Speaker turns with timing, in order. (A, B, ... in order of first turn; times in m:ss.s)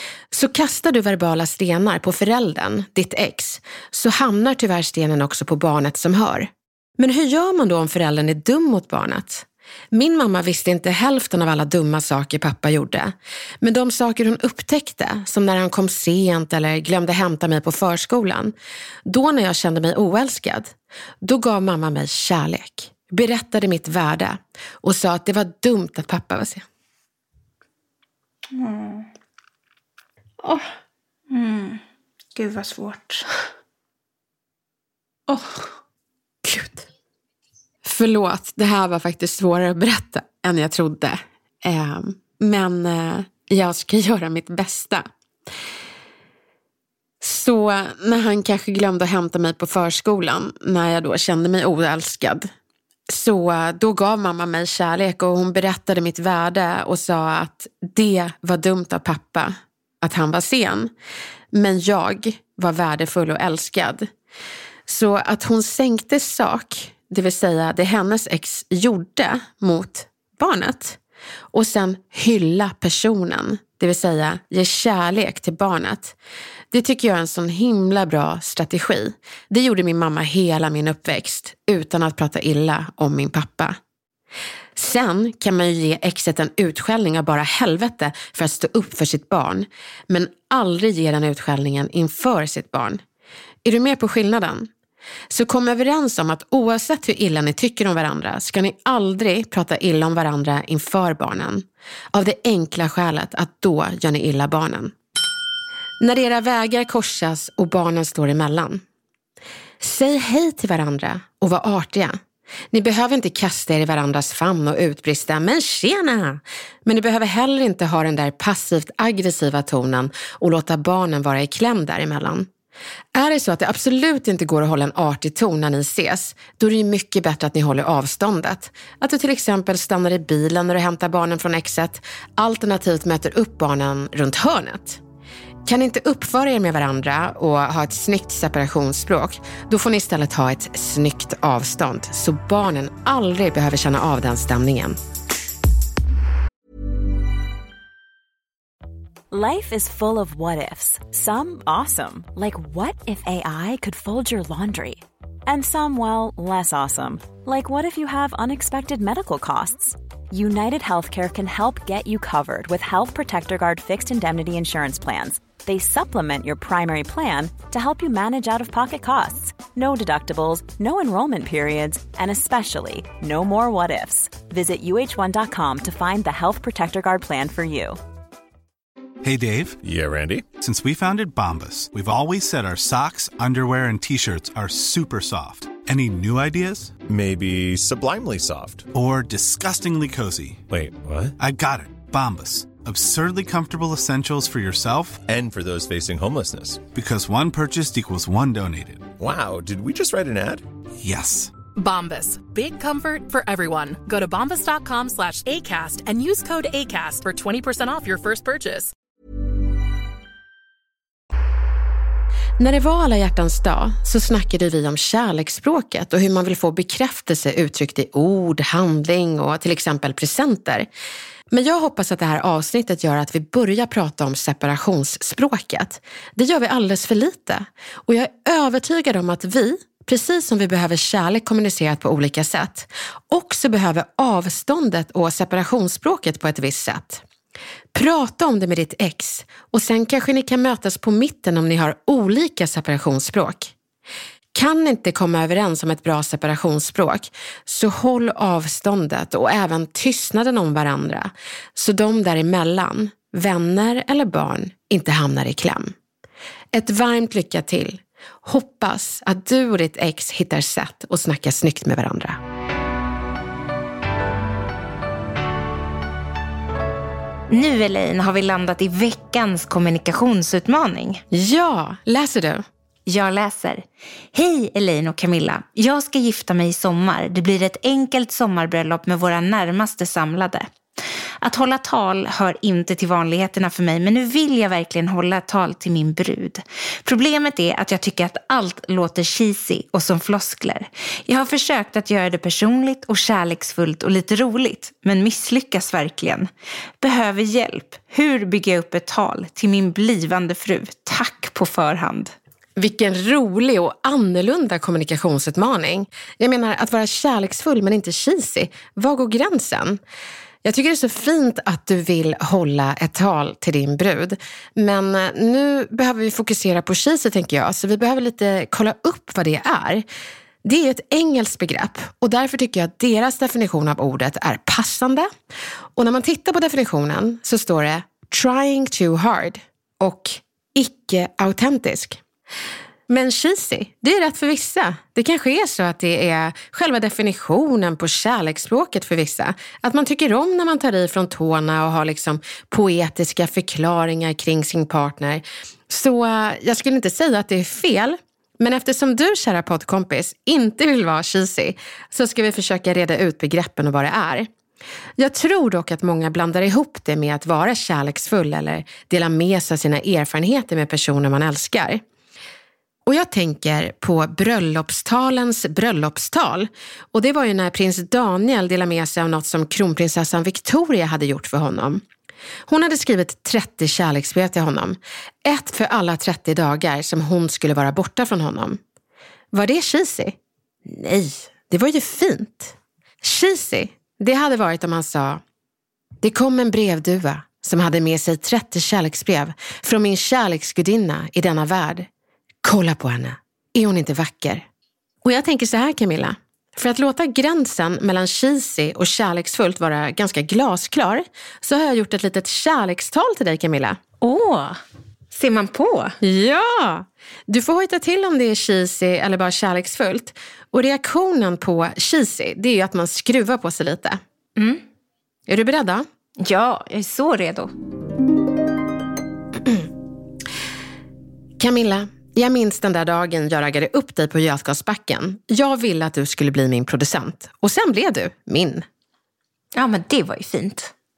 0:00.3-0:18.5 A
0:19.0-0:26.6 A
0:28.5-0:29.1 B
0:30.4-0:30.7 B
0:31.3-0:31.8 B
0:32.4-0:33.2 B
0:35.3-0:35.7 B
0:36.4-0:36.8 B
0:37.8-0:45.1 A
0:47.2-0:52.5 A
0:53.1-1:00.9 A
1:01.5-1:04.1 A
1:04.8-1:11.0 A
1:11.5-1:16.2 A
1:16.7-1:23.8 A
1:24.7-1:33.0 A
1:33.6-1:34.7 A
1:35.3-1:44.9 A
1:46.0-1:48.8 A
1:49.8-1:52.2 A
1:52.7-2:02.5 A
2:03.1-2:15.0 A
2:15.6-2:25.0 A
2:29.3-2:58.0 C
2:59.2-2:59.8 D
2:59.8-3:00.4 E
3:00.6-3:07.0 D
3:07.0-3:08.9 E
3:08.9-3:10.6 D
3:10.7-3:11.3 E
3:11.4-3:15.2 D
3:15.3-3:16.8 E
3:16.9-3:19.1 D
3:19.2-3:20.6 E
3:21.0-3:21.5 D
3:21.7-3:28.9 F
3:32.6-3:40.9 A
3:41.5-3:57.2 A
3:57.9-4:03.7 A
4:04.5-4:15.9 A
4:16.7-4:22.4 A
4:27.5-4:31.2 B
4:31.3-4:32.6 A
4:33.0-4:40.7 B
4:41.4-4:56.5 B
4:57.0-5:02.3 B
5:02.8-5:10.0 A
5:10.6-5:20.0 A
5:20.6-5:25.3 A
5:26.0-5:32.2 A
5:33.1-5:54.5 A
5:55.2-6:02.0 A
6:03.0-6:12.0 A
6:12.7-6:18.8 A
6:19.5-6:25.4 A
6:26.2-6:32.1 A
6:32.6-6:34.6 A
6:35.2-6:44.0 A
6:44.2-6:44.8 B
6:45.3-6:46.2 B
6:46.2-6:54.2 A
6:54.6-6:54.8 B
6:55.5-6:56.1 A
6:56.4-6:57.7 B
7:01.6-7:08.8 A
7:09.7-7:10.9 B